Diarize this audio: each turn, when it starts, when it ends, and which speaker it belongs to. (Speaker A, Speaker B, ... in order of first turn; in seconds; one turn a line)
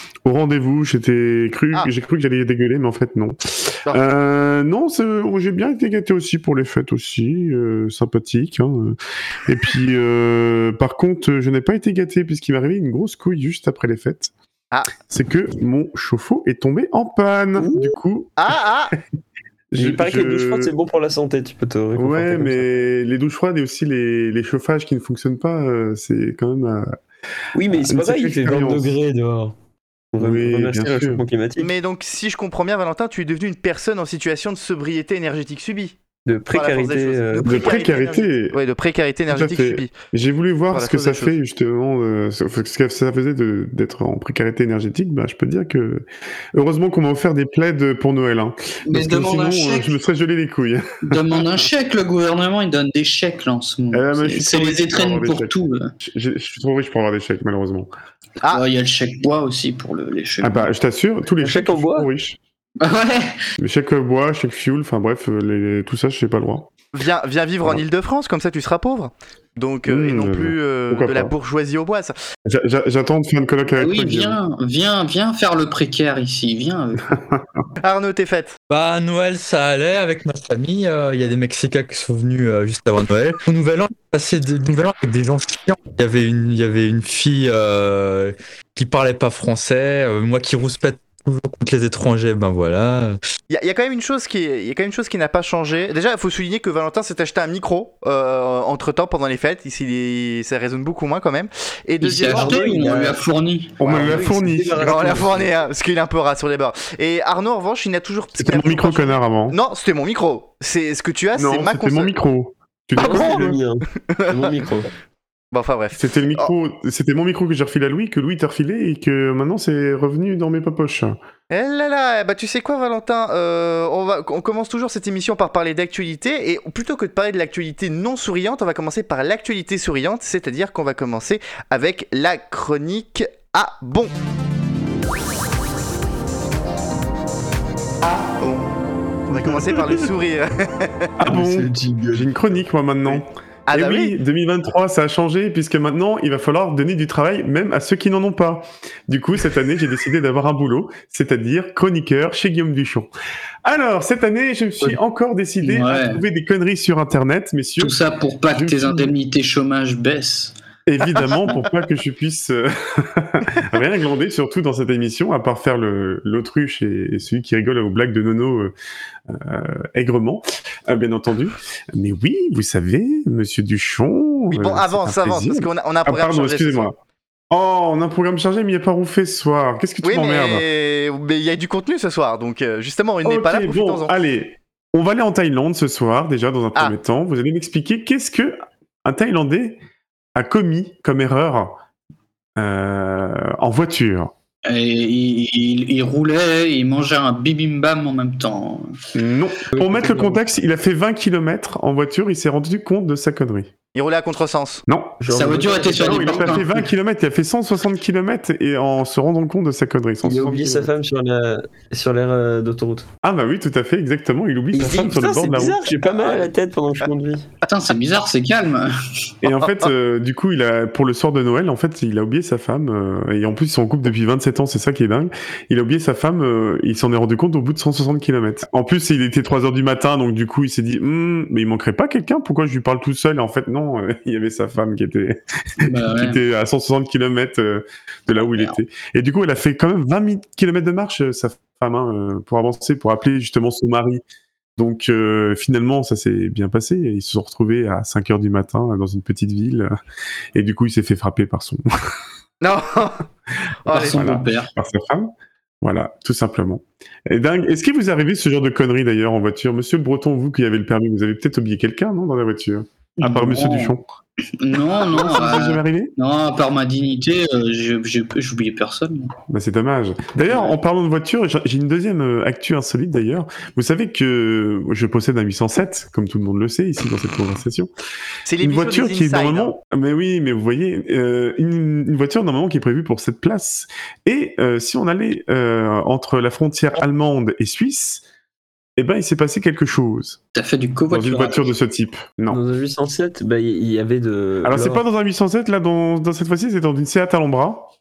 Speaker A: 0.2-14.3
Speaker A: 15.1-18.4
Speaker B: 17.6-17.9
Speaker C: 18.4-18.9
Speaker A: 19.7-20.7
Speaker B: 19.7-22.6
Speaker A: 21.9-26.9
Speaker B: 27.5-29.5
Speaker A: 27.7-28.9
Speaker B: 30.1-31.7
Speaker A: 30.2-31.2
Speaker C: 31.6-36.0
Speaker B: 36.2-37.8
Speaker C: 36.5-39.9
Speaker A: 37.4-38.5
Speaker A: 39.3-51.6
Speaker C: 40.7-41.3
Speaker D: 48.9-49.9
Speaker D: 51.0-55.9
Speaker A: 53.9-57.9
Speaker D: 58.5-60.7
Speaker A: 60.4-62.4
Speaker B: 61.4-62.1
Speaker D: 62.8-63.4
Speaker A: 63.6-66.7
Speaker C: 66.9-72.1
Speaker A: 69.8-71.3
Speaker A: 72.5-74.4
Speaker D: 73.8-77.1
Speaker A: 77.1-77.6
Speaker C: 77.8-78.6
Speaker E: 78.7-93.2
Speaker C: 93.5-102.6
Speaker D: 102.0-103.8
Speaker B: 102.0-103.2
Speaker A: 103.8-105.3
Speaker B: 103.8-105.5
Speaker C: 104.8-112.1
Speaker A: 108.4-109.6
Speaker A: 111.3-113.6
Speaker B: 113.0-114.9
Speaker C: 114.1-114.5
Speaker C: 115.5-116.5
Speaker A: 115.9-121.2
Speaker C: 121.5-134.1
Speaker C: 138.4-138.7
Speaker C: 139.3-141.1
Speaker B: 139.4-139.8
Speaker A: 141.2-153.1
Speaker B: 141.2-142.3
Speaker C: 143.1-144.1
Speaker A: 153.6-158.0
Speaker D: 155.6-156.2
Speaker D: 157.8-160.5
Speaker A: 158.5-159.1
Speaker A: 160.8-168.7
Speaker A: 169.3-176.9
Speaker C: 174.5-176.9
Speaker A: 177.5-180.7
Speaker C: 180.0-184.1
Speaker A: 183.2-189.8
Speaker A: 190.3-191.8
Speaker A: 192.6-194.3
Speaker D: 194.7-198.9
Speaker A: 199.1-203.7
Speaker B: 199.7-200.4
Speaker C: 203.9-204.8
Speaker A: 204.9-205.2
Speaker B: 205.2-206.8
Speaker D: 205.3-206.7
Speaker A: 205.9-210.9
Speaker B: 210.2-213.1
Speaker A: 213.2-215.9
Speaker B: 214.7-217.4
Speaker D: 217.6-218.9
Speaker A: 219.4-244.2
Speaker D: 235.8-236.4
Speaker D: 238.3-238.8
Speaker A: 244.8-249.9
Speaker A: 250.5-251.8
Speaker C: 252.6-253.2
Speaker C: 253.8-254.2
Speaker D: 253.9-254.7
Speaker A: 254.1-264.0
Speaker D: 263.2-263.9
Speaker D: 264.6-269.3
Speaker A: 264.9-266.1
Speaker A: 269.5-277.9
Speaker C: 278.4-279.7
Speaker A: 278.6-288.2
Speaker A: 289.0-290.4
Speaker D: 290.5-291.7
Speaker A: 291.1-292.6
Speaker B: 292.5-295.0
Speaker A: 294.6-297.9